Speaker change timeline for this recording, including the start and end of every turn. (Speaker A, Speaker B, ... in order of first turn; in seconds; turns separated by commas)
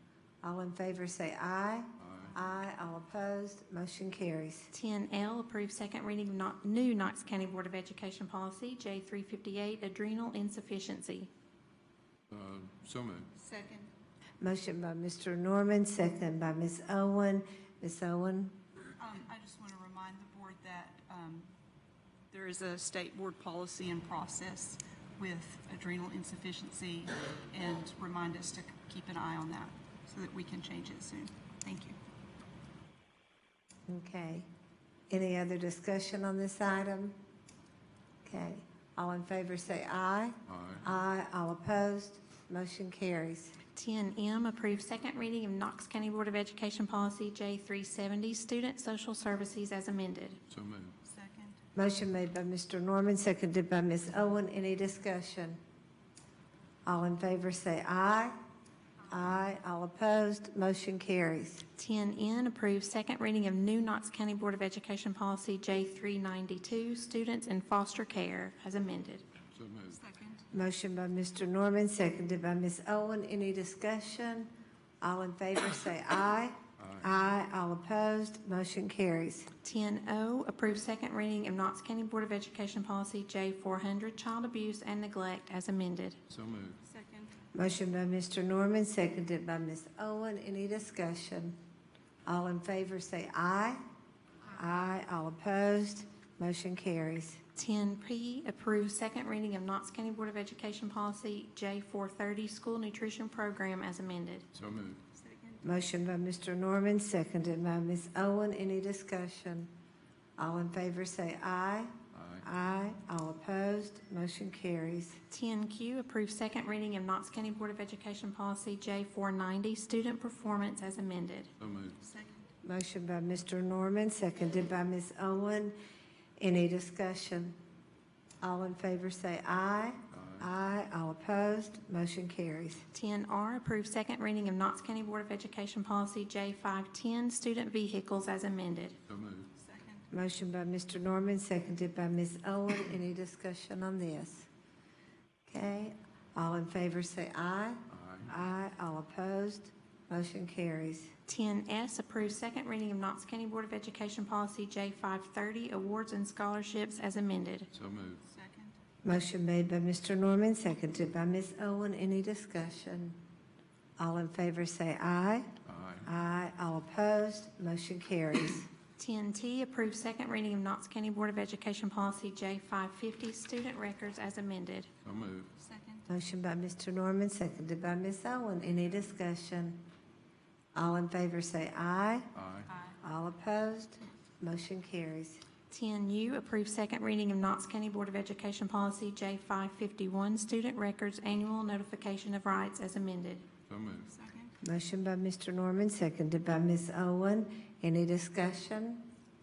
Speaker A: 0.4-4.7, Speaker B: 2.0-2.3, Speaker C: 4.7-11.3, Speaker B: 12.3-13.3, Speaker D: 13.4-13.9, Speaker A: 14.4-18.6, Speaker D: 19.0-21.5, Speaker D: 22.3-32.0, Speaker A: 33.9-34.5, Speaker A: 35.1-37.1, Speaker A: 38.2-43.5, Speaker B: 40.5-40.8, Speaker C: 43.7-50.4, Speaker B: 50.5-50.9, Speaker D: 51.0-51.6, Speaker A: 51.7-55.6, Speaker A: 56.8-58.4, Speaker A: 59.1-61.6, Speaker C: 61.8-69.2, Speaker B: 69.5-70.0, Speaker D: 69.9-70.4, Speaker A: 70.5-74.5, Speaker A: 75.0-79.5, Speaker B: 76.8-77.2, Speaker C: 79.6-86.2, Speaker B: 86.3-86.8, Speaker D: 86.8-87.3, Speaker A: 87.5-91.5, Speaker A: 92.2-93.8, Speaker A: 94.5-97.4, Speaker C: 97.5-104.4, Speaker B: 104.5-105.0, Speaker D: 105.2-105.6, Speaker A: 105.6-109.7, Speaker A: 110.4-115.2, Speaker B: 112.1-112.4, Speaker C: 115.3-121.5, Speaker B: 121.6-122.0, Speaker D: 122.0-122.3, Speaker A: 122.6-125.7, Speaker A: 126.4-127.5, Speaker A: 128.4-132.8, Speaker B: 130.1-130.5, Speaker C: 132.9-138.9, Speaker B: 139.1-139.5, Speaker D: 139.6-140.0, Speaker A: 140.1-144.5, Speaker A: 145.5-151.1, Speaker B: 147.9-148.3, Speaker C: 151.3-157.7, Speaker B: 157.7-158.2, Speaker D: 158.3-158.8, Speaker A: 159.0-163.2, Speaker A: 164.0-165.5, Speaker B: 165.7-166.1, Speaker A: 166.0-168.7, Speaker C: 169.0-174.9, Speaker B: 175.0-175.5, Speaker D: 175.6-176.0, Speaker A: 176.1-179.8, Speaker A: 180.7-182.3, Speaker B: 182.3-182.7, Speaker A: 183.0-185.4, Speaker C: 185.7-193.4, Speaker B: 193.7-194.1, Speaker D: 194.1-194.5, Speaker A: 194.6-199.0